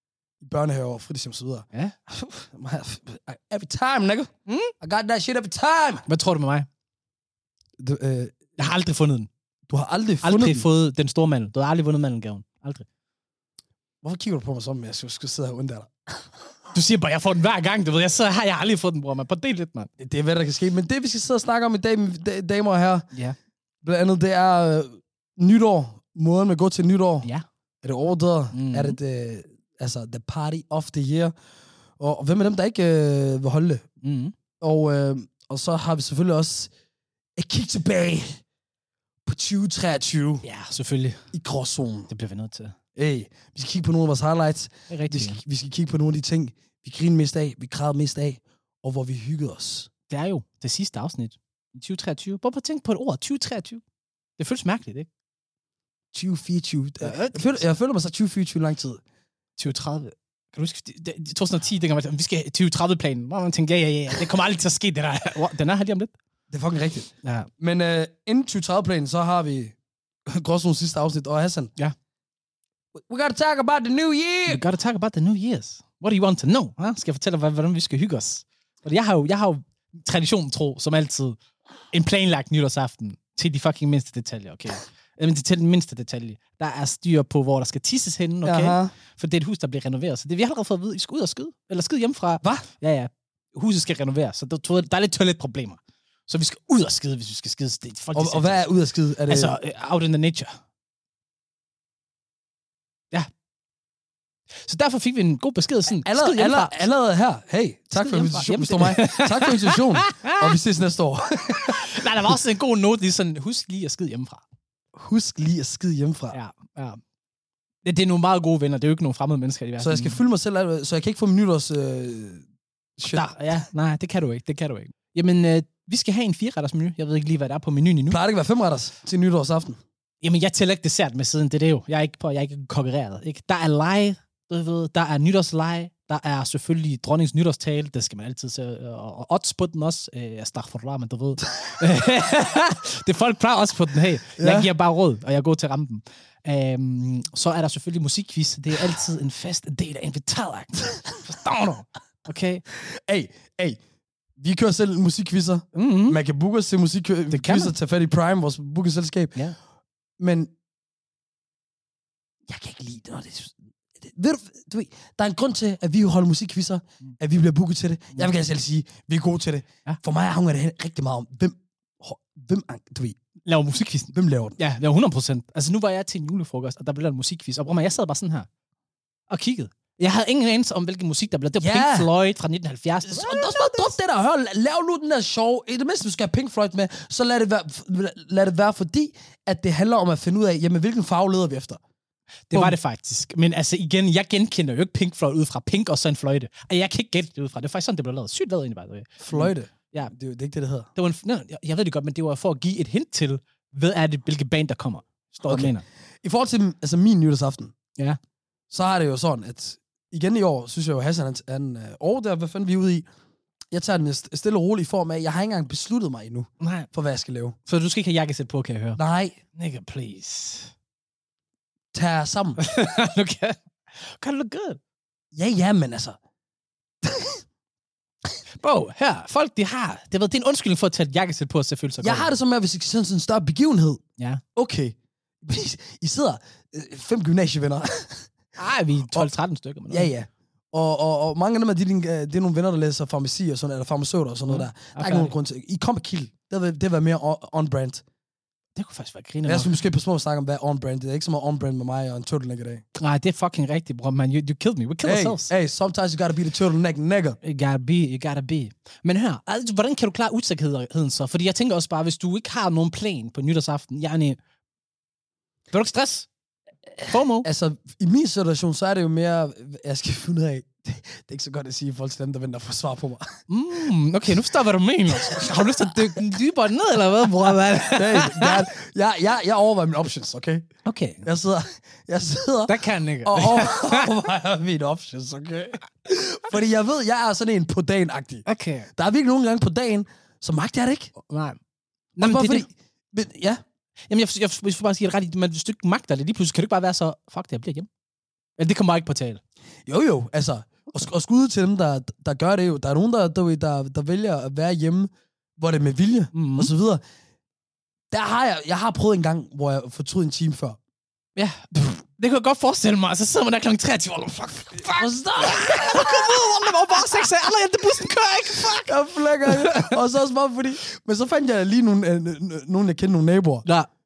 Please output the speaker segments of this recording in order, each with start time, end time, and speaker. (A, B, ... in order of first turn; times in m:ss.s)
0:00.4-0:06.0 A
0:04.5-0:04.7 B
0:06.0-0:06.7 B
0:07.8-0:08.4 A
0:08.6-0:09.3 B
0:09.7-0:10.6 A
0:10.2-0:12.8 B
0:14.0-0:16.3 A
0:16.7-0:19.9 B
0:20.0-0:23.1 A
0:23.8-0:27.3 A
0:27.8-0:31.3 A
0:28.5-0:29.0 B
0:32.0-0:33.8 A
0:34.0-0:34.3 B
0:34.6-0:36.7 A
0:37.4-0:38.4 A
0:39.2-0:40.4 A
0:40.4-0:41.3 B
0:41.3-0:42.1 A
0:42.1-0:42.7 B
0:43.0-0:49.9 A
0:44.9-0:45.4 B
0:50.1-0:53.8 B
0:54.4-0:55.1 B
0:56.1-0:59.0 A
0:57.0-0:57.6 B
0:59.6-1:06.1 B
1:06.5-1:09.7 A
1:07.2-1:07.5 B
1:10.3-1:11.7 A
1:12.9-1:14.6 A
1:14.5-1:21.4 B
1:21.9-1:38.7 B
1:28.4-1:28.9 A
1:32.4-1:32.7 A
1:38.1-1:39.6 A
1:39.3-1:40.5 B
1:44.6-1:46.8 B
1:46.0-1:52.4 A
1:48.0-1:50.6 B
1:51.6-1:54.4 B
1:54.9-1:56.4 A
1:56.3-1:57.0 B
1:57.8-2:00.2 B
1:59.8-2:02.4 A
2:03.0-2:03.3 A
2:03.0-2:08.2 B
2:08.1-2:09.8 A
2:10.2-2:32.6 B
2:24.4-2:24.7 A
2:32.8-2:33.8 A
2:34.4-2:39.4 A
2:35.7-2:36.2 B
2:37.3-2:37.7 B
2:40.2-2:40.5 A
2:42.5-2:53.2 A
2:53.4-2:58.5 B
2:54.1-2:54.6 A
2:59.3-3:03.9 B
3:01.6-3:02.1 A
3:03.0-3:11.8 A
3:12.5-3:20.1 B
3:12.5-3:12.8 A
3:19.2-3:20.9 A
3:20.9-3:25.8 B
3:25.4-3:27.7 A
3:28.7-3:33.1 A
3:33.7-3:37.6 A
3:36.6-3:36.9 B
3:37.7-3:39.0 B
3:39.0-3:39.4 A
3:39.5-3:40.7 B
3:41.9-3:42.6 A
3:42.6-3:44.8 B
3:45.3-3:46.2 A
3:47.0-3:47.4 A
3:48.6-3:52.4 B
3:52.0-3:54.0 A
3:54.5-3:58.3 A
3:58.6-4:00.1 B
3:59.9-4:08.0 A
4:04.5-4:05.3 B
4:08.7-4:09.7 B
4:09.4-4:12.8 A
4:13.0-4:15.5 B
4:15.0-4:17.4 A
4:17.4-4:24.4 B
4:25.7-4:26.3 B
4:27.0-4:27.5 B
4:27.4-4:33.4 A
4:33.5-4:38.6 B
4:35.1-4:36.0 A
4:37.9-4:40.7 A
4:40.8-4:41.3 B
4:41.2-4:51.1 A
4:42.7-4:44.1 B
4:48.4-4:48.9 B
4:51.3-4:51.6 B
4:52.2-4:52.7 B
4:52.2-4:53.6 A
4:54.1-4:57.9 B
4:58.6-4:59.4 B
4:59.8-5:07.0 A
5:06.3-5:06.7 B
5:08.1-5:10.8 A
5:11.4-5:20.0 B
5:14.8-5:16.5 A
5:18.6-5:23.6 A